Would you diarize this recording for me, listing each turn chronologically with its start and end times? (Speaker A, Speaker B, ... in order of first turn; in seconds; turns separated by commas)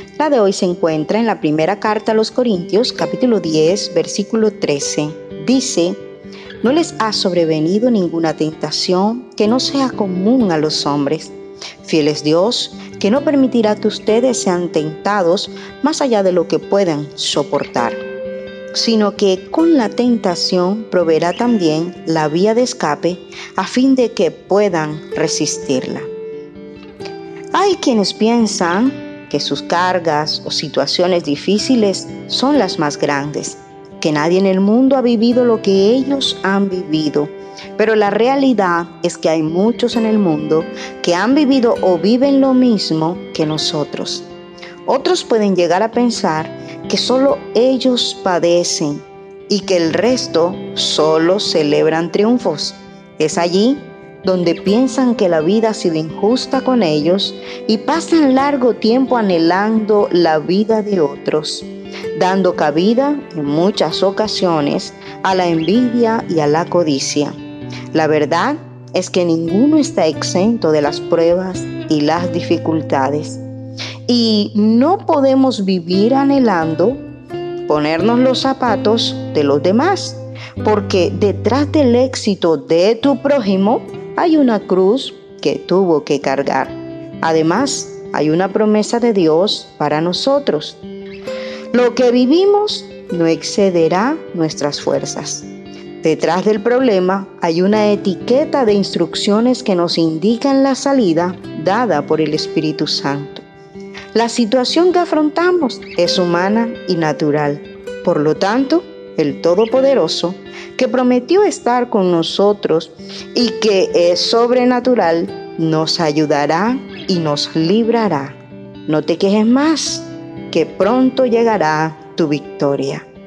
Speaker A: 0.2-6.0, Speaker A: 6.6-11.3, Speaker A: 11.8-18.0, Speaker A: 18.7-26.1, Speaker A: 27.5-44.2, Speaker A: 44.9-67.3, Speaker A: 67.9-73.4, Speaker A: 74.1-77.0, Speaker A: 77.7-90.8, Speaker A: 91.7-95.5, Speaker A: 96.0-103.4, Speaker A: 104.1-123.0